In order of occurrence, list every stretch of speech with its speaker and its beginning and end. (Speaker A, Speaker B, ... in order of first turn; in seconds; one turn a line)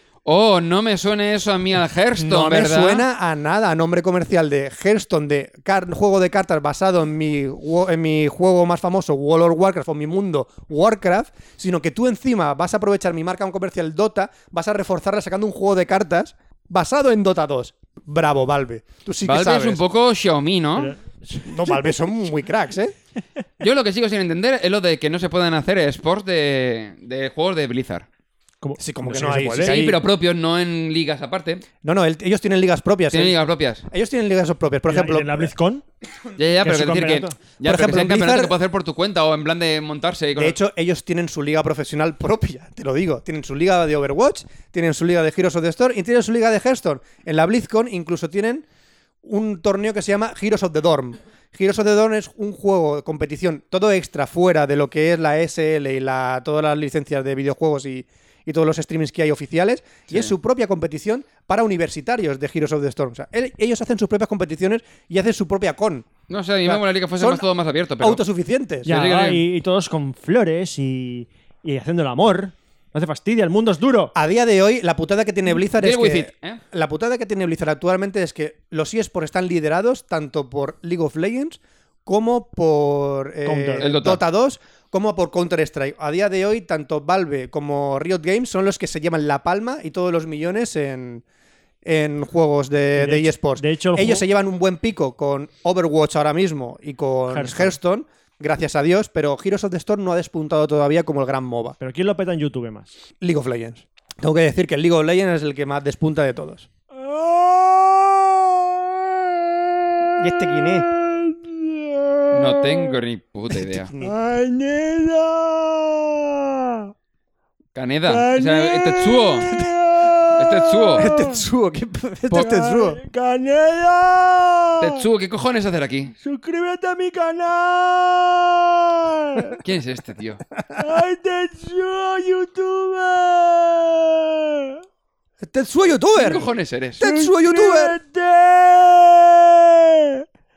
Speaker A: 0.2-3.0
Speaker B: 2.2-19.8
Speaker A: 19.2-20.9
Speaker C: 20.8-21.8
Speaker B: 21.4-22.9
Speaker A: 23.6-28.1
Speaker C: 28.6-29.8
Speaker B: 28.8-30.0
Speaker A: 29.6-31.6
Speaker B: 31.8-33.3
Speaker A: 33.1-33.8
Speaker B: 33.9-35.5
Speaker C: 34.9-35.8
Speaker A: 36.4-40.6
Speaker C: 36.6-37.4
Speaker B: 37.6-38.5
Speaker B: 40.3-48.6
Speaker B: 49.2-66.1
Speaker A: 66.3-68.2
Speaker B: 66.6-67.4
Speaker B: 68.0-69.0
Speaker C: 68.8-74.1
Speaker A: 68.9-69.4
Speaker B: 74.1-91.2
Speaker A: 75.7-76.6
Speaker C: 83.4-83.9
Speaker A: 83.8-84.2
Speaker B: 91.8-101.8
Speaker C: 93.0-94.2
Speaker C: 97.3-97.8
Speaker C: 101.8-102.9
Speaker B: 103.2-106.7
Speaker C: 106.9-113.0
Speaker B: 110.2-110.9
Speaker A: 112.3-113.9
Speaker B: 113.8-114.1
Speaker C: 114.0-116.9
Speaker A: 117.7-119.5
Speaker C: 118.1-121.4
Speaker A: 120.4-121.1
Speaker B: 121.0-123.0
Speaker C: 122.3-125.0
Speaker A: 124.8-126.1
Speaker C: 126.2-129.6
Speaker A: 129.6-130.4
Speaker C: 130.8-134.7
Speaker B: 135.4-136.5
Speaker A: 136.2-137.0
Speaker B: 137.0-137.9
Speaker C: 137.0-140.2